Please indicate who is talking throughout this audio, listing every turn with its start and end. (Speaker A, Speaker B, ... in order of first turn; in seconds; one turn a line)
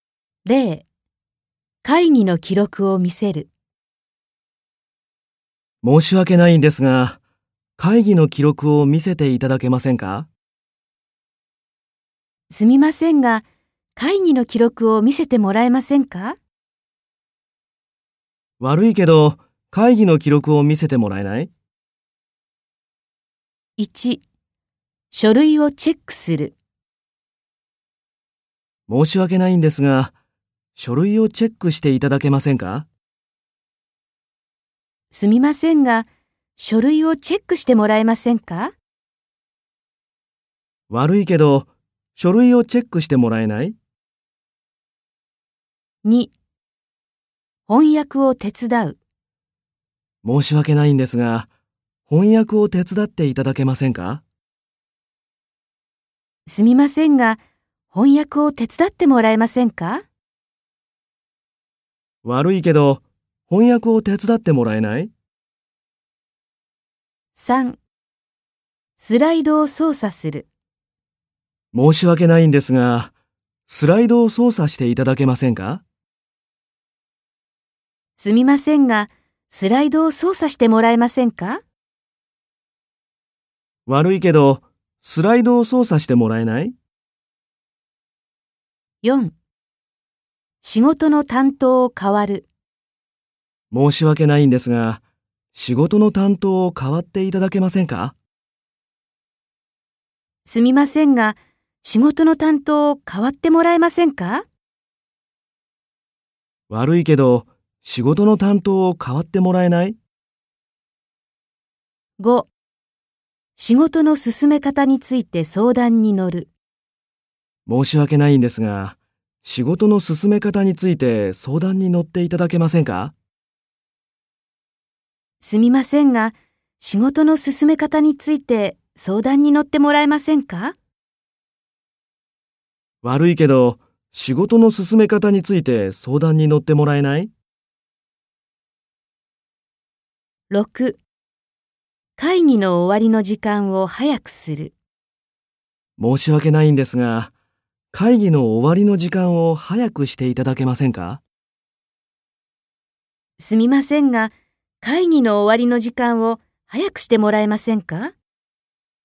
Speaker A: 0.5-0.8
Speaker A: 1.8-3.5
Speaker B: 5.8-7.2
Speaker B: 7.8-10.3
Speaker A: 12.5-16.4
Speaker B: 18.6-21.5
Speaker A: 23.8-24.2
Speaker A: 25.1-26.6
Speaker B: 28.9-30.1
Speaker B: 30.8-32.9
Speaker A: 35.1-38.8
Speaker B: 40.9-43.8
Speaker A: 46.0-46.3
Speaker A: 47.7-49.0
Speaker B: 50.2-51.5
Speaker B: 52.1-54.2
Speaker A: 56.5-60.0
Speaker B: 62.2-65.1
Speaker A: 67.3-67.8
Speaker A: 69.0-70.5
Speaker B: 71.7-73.1
Speaker B: 73.7-75.8
Speaker A: 78.2-81.6
Speaker B: 83.9-86.8
Speaker A: 89.0-89.3
Speaker A: 90.6-92.5
Speaker B: 93.7-95.0
Speaker B: 95.5-98.2
Speaker A: 100.5-104.5
Speaker B: 106.7-110.0
Speaker A: 112.2-112.5
Speaker A: 113.6-116.5
Speaker B: 117.7-123.1
Speaker A: 125.4-130.8
Speaker B: 133.0-137.3
Speaker A: 140.5-141.0
Speaker A: 142.2-144.7
Speaker B: 146.0-147.3
Speaker B: 147.9-151.2
Speaker A: 153.4-158.2